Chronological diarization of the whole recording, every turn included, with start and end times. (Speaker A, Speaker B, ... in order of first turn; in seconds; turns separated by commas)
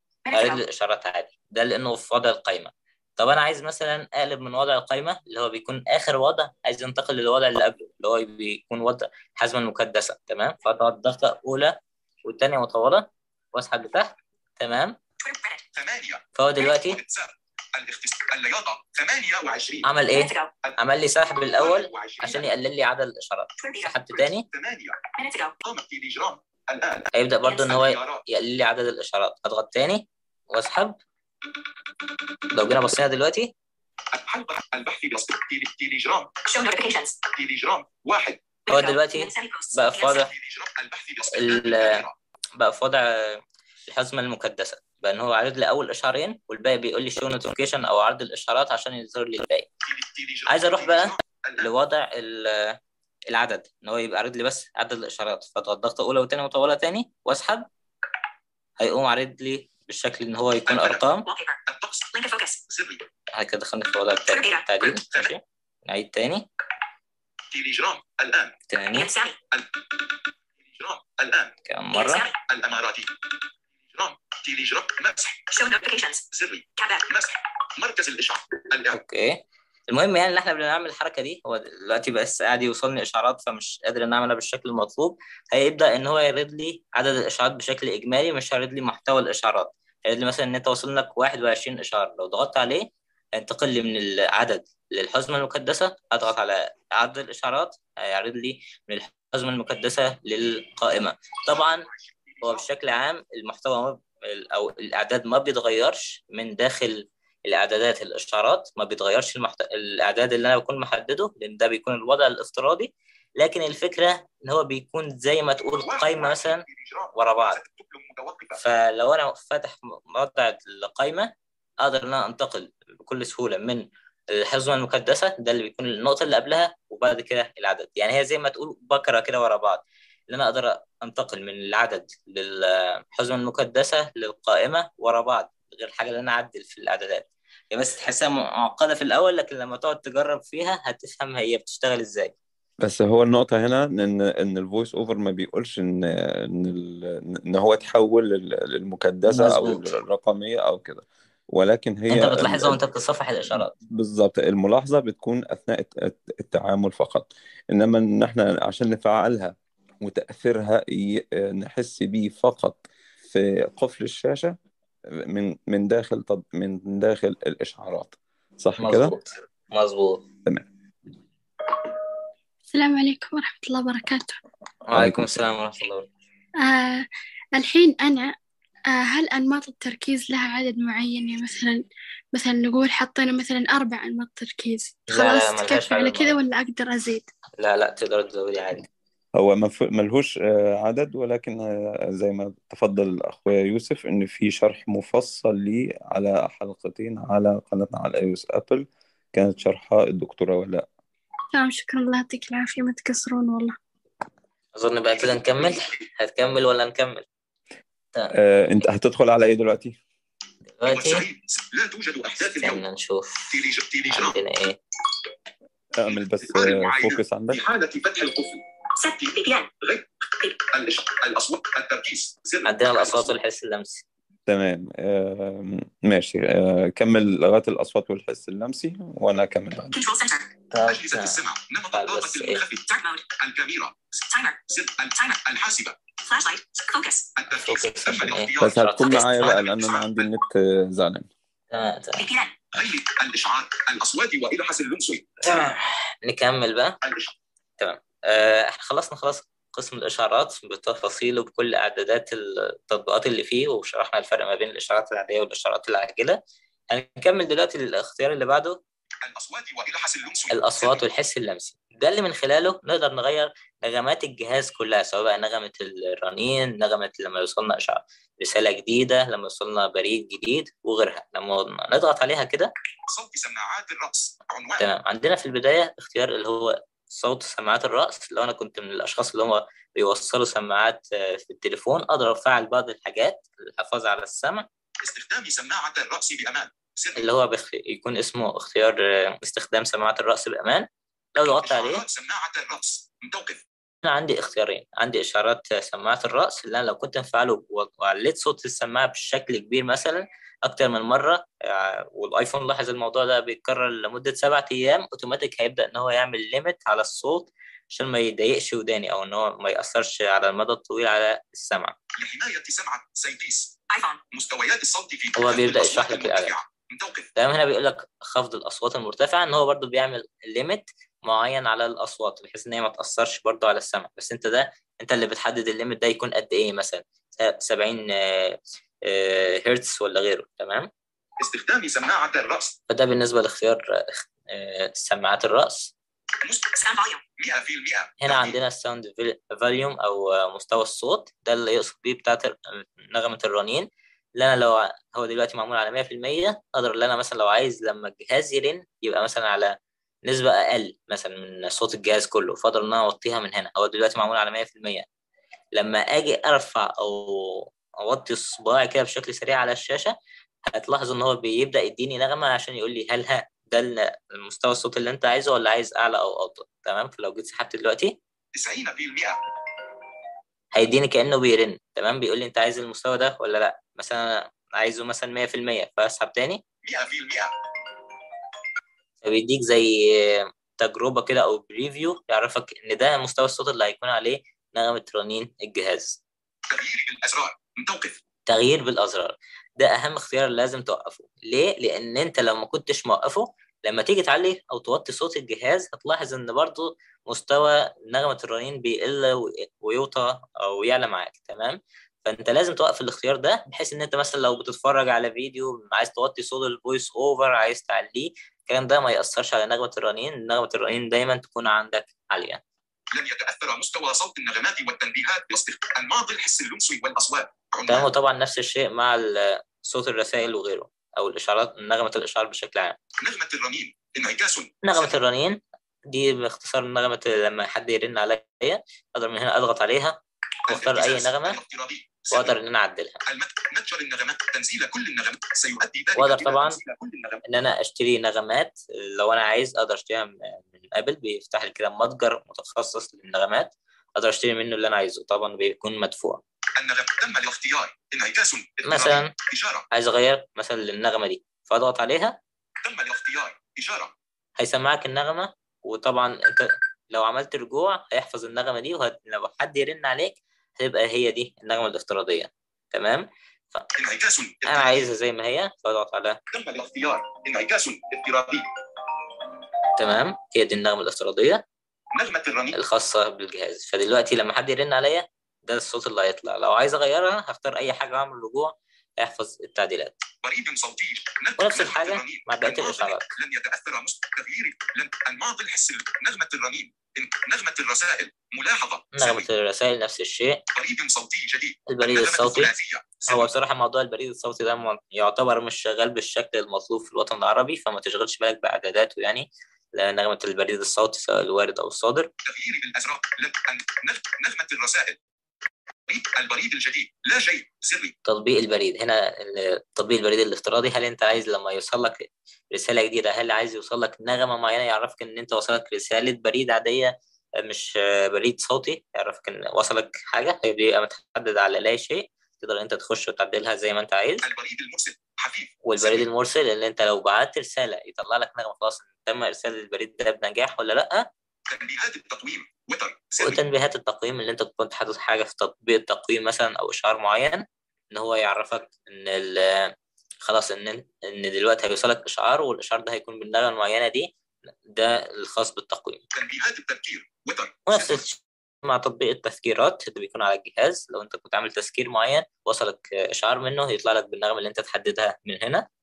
Speaker A: 0.2-0.6, Speaker B: 0.3-15.0, Speaker A: 15.2-15.7, Speaker C: 15.7-19.9, Speaker B: 16.3-17.0, Speaker B: 19.8-24.4, Speaker A: 20.1-20.5, Speaker C: 21.5-22.5, Speaker A: 23.6-24.2, Speaker C: 24.5-25.0, Speaker A: 25.1-25.6, Speaker C: 25.6-28.2, Speaker B: 27.1-31.0, Speaker A: 27.5-27.7, Speaker B: 32.5-33.5, Speaker C: 34.1-36.3, Speaker A: 36.4-37.2, Speaker C: 37.3-38.4, Speaker A: 38.7-40.2, Speaker B: 38.7-40.3, Speaker C: 40.1-42.1, Speaker B: 41.3-42.0, Speaker B: 42.6-49.7, Speaker C: 49.8-51.7, Speaker B: 50.5-52.8, Speaker B: 53.3-57.7, Speaker B: 58.8-61.2, Speaker C: 60.6-61.1, Speaker A: 61.2-61.6, Speaker C: 61.7-62.1, Speaker A: 62.1-62.6, Speaker C: 62.7-63.0, Speaker B: 63.3-66.5, Speaker A: 64.1-65.0, Speaker C: 67.5-68.5, Speaker B: 68.7-69.1, Speaker A: 68.9-69.4, Speaker C: 69.5-71.5, Speaker B: 71.7-72.2, Speaker A: 71.9-72.3, Speaker C: 72.5-75.4, Speaker A: 75.5-76.2, Speaker C: 76.3-79.0, Speaker A: 76.8-77.0, Speaker B: 78.9-101.8, Speaker C: 101.5-102.7, Speaker B: 102.4-116.6, Speaker C: 115.8-118.6, Speaker B: 117.1-117.6, Speaker B: 118.5-142.3, Speaker D: 142.8-152.8, Speaker B: 149.3-149.9, Speaker B: 152.1-153.7, Speaker D: 153.5-164.6, Speaker D: 165.1-169.1, Speaker B: 168.8-170.2, Speaker E: 172.7-174.4, Speaker B: 174.8-176.1, Speaker D: 174.9-175.3, Speaker E: 176.6-178.3, Speaker E: 178.9-187.3, Speaker B: 185.1-186.4, Speaker B: 187.6-188.9, Speaker D: 189.3-200.8, Speaker E: 201.5-203.8, Speaker B: 204.7-207.2, Speaker C: 205.2-205.8, Speaker D: 208.3-209.9, Speaker B: 210.8-211.2, Speaker C: 210.9-212.8, Speaker B: 212.6-213.6, Speaker C: 213.5-214.4, Speaker B: 214.1-214.8, Speaker D: 215.9-217.6, Speaker C: 216.0-218.6, Speaker A: 219.0-219.7, Speaker C: 219.8-223.3, Speaker B: 222.6-224.0, Speaker D: 224.5-230.0, Speaker A: 229.9-230.5, Speaker B: 230.7-231.4, Speaker C: 230.8-236.0, Speaker B: 231.9-232.6, Speaker A: 234.3-234.6, Speaker A: 236.2-237.3, Speaker C: 237.3-240.3, Speaker B: 237.5-239.5, Speaker D: 238.6-241.3, Speaker B: 241.7-242.2, Speaker A: 242.2-242.5, Speaker C: 242.7-245.3, Speaker B: 245.4-247.0, Speaker C: 247.0-247.3, Speaker B: 247.8-256.4, Speaker B: 256.9-258.8, Speaker C: 259.2-261.0, Speaker B: 260.5-272.7, Speaker C: 273.1-274.9, Speaker B: 274.8-284.6, Speaker C: 285.0-287.3, Speaker B: 287.2-292.0, Speaker C: 291.6-293.6, Speaker B: 294.0-311.9, Speaker C: 312.2-313.7, Speaker A: 313.9-314.2, Speaker C: 314.3-317.3, Speaker B: 315.4-316.6, Speaker B: 317.4-330.9, Speaker C: 331.4-332.8, Speaker B: 332.9-335.9, Speaker C: 336.4-336.9, Speaker A: 336.8-337.2, Speaker C: 337.4-338.6, Speaker B: 338.2-355.0, Speaker B: 355.7-360.1, Speaker B: 360.7-368.1, Speaker C: 368.5-369.4, Speaker B: 370.7-376.6, Speaker C: 376.8-377.5, Speaker B: 379.2-386.2, Speaker C: 386.7-388.2, Speaker B: 388.5-412.6, Speaker C: 413.1-418.1, Speaker B: 417.9-423.0, Speaker C: 423.2-425.2, Speaker B: 424.8-431.6, Speaker C: 430.7-432.5, Speaker B: 432.3-433.2, Speaker C: 433.3-437.4, Speaker B: 436.1-436.8, Speaker B: 437.4-446.4, Speaker C: 446.8-449.8, Speaker B: 448.8-449.3, Speaker B: 449.9-452.4, Speaker C: 452.8-454.1, Speaker B: 454.6-463.9, Speaker C: 464.0-465.0, Speaker B: 464.6-466.4, Speaker C: 466.5-468.7, Speaker B: 470.0-471.6, Speaker C: 472.1-472.8, Speaker B: 472.7-480.2, Speaker C: 480.4-489.5, Speaker B: 481.6-483.3, Speaker B: 489.1-490.6, Speaker C: 490.8-493.5, Speaker B: 491.9-492.7, Speaker B: 493.3-502.3, Speaker C: 502.4-505.2, Speaker C: 506.1-508.1, Speaker B: 508.2-524.5, Speaker C: 524.4-526.2, Speaker B: 525.8-531.2, Speaker C: 531.7-533.6, Speaker B: 533.4-539.9, Speaker B: 540.4-544.3, Speaker B: 544.9-546.2, Speaker C: 546.3-548.2, Speaker B: 547.9-555.9